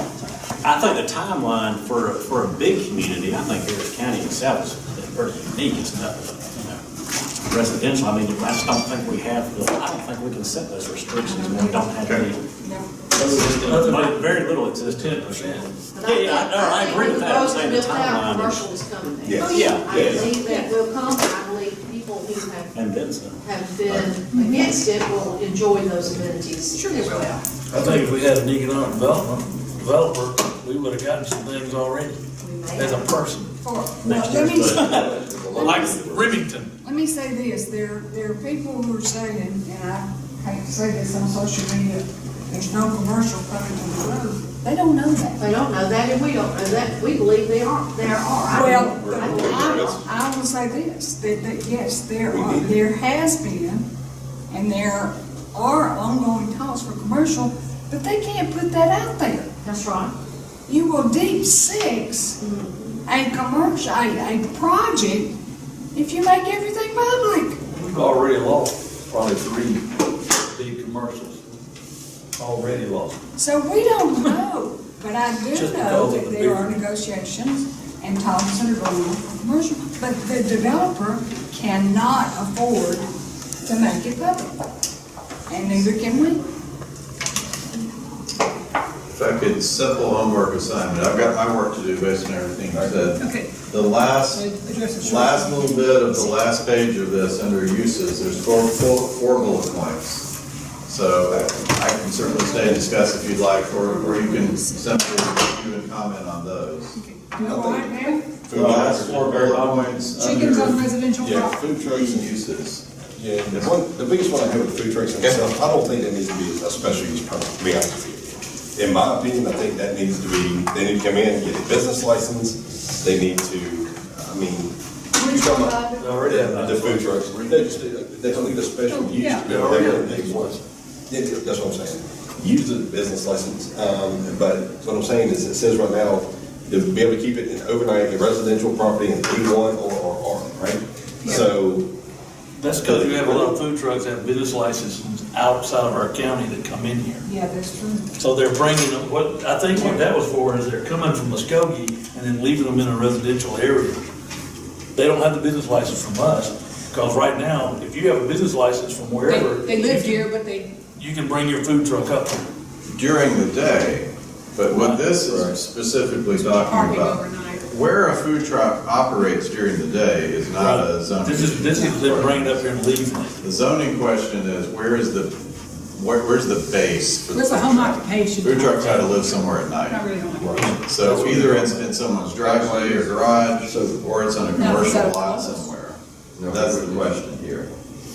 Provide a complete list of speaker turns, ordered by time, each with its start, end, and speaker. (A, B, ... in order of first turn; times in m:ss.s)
0:00.6-0:06.8 A
0:07.4-0:12.4 A
0:11.1-0:13.1 B
0:13.1-0:18.6 A
0:13.2-0:15.7 C
0:15.9-0:22.8 D
0:19.2-0:20.3 E
0:19.4-0:20.3 A
0:22.7-0:23.4 A
0:23.4-0:27.4 D
0:23.8-0:24.1 F
0:26.8-0:27.3 G
0:27.7-0:32.2 C
0:32.4-0:33.1 D
0:32.8-0:33.5 C
0:33.6-0:35.0 B
0:34.0-0:35.0 A
0:34.7-0:36.4 E
0:34.9-0:36.7 C
0:35.6-0:36.0 B
0:36.8-0:45.4 B
0:45.4-0:50.0 D
0:48.4-0:53.8 B
0:49.0-0:50.0 E
0:52.3-0:52.8 E
0:54.5-0:59.5 B
0:59.6-1:00.1 D
1:00.7-1:02.4 B
1:02.4-1:03.0 D
1:03.0-1:05.3 B
1:05.9-1:07.6 B
1:07.7-1:09.8 C
1:10.4-1:11.4 C
1:12.4-1:13.2 C
1:13.4-1:23.1 B
1:15.5-1:16.8 C
1:23.6-1:24.6 B
1:25.5-1:26.4 B
1:29.1-1:34.4 F
1:32.7-1:33.0 E
1:33.2-1:33.6 G
1:34.3-1:36.4 G
1:35.0-1:40.3 F
1:40.9-1:47.0 F
1:41.3-1:41.6 E
1:42.2-1:45.4 B
1:46.9-1:48.2 G
1:47.3-1:48.1 B
1:47.4-1:49.3 E
1:48.5-1:50.8 F
1:48.6-1:50.0 C
1:50.2-1:51.6 G
1:51.2-1:52.3 E
1:51.6-1:52.8 F
1:53.2-2:10.6 E
1:55.2-1:55.5 F
2:05.1-2:06.5 B
2:06.0-2:07.8 C
2:08.9-2:09.2 B
2:09.2-2:09.4 G
2:09.4-2:10.6 C
2:11.1-2:21.9 E
2:22.6-2:27.2 C
2:22.8-2:23.5 E
2:27.2-2:28.1 B
2:28.2-2:34.0 C
2:29.7-2:30.0 B
2:34.9-2:40.2 C
2:39.2-2:40.7 G
2:41.0-2:42.4 C
2:42.9-2:52.6 F
2:44.7-2:45.0 C
2:46.3-2:47.7 G
2:50.6-2:53.4 C
2:53.4-2:55.4 F
2:55.9-3:00.0 F
2:57.3-3:00.8 G
3:00.4-3:00.7 E
3:00.8-3:07.7 F
3:00.9-3:01.9 C
3:02.3-3:03.1 E
3:03.6-3:04.0 E
3:04.5-3:05.7 G
3:06.4-3:07.1 E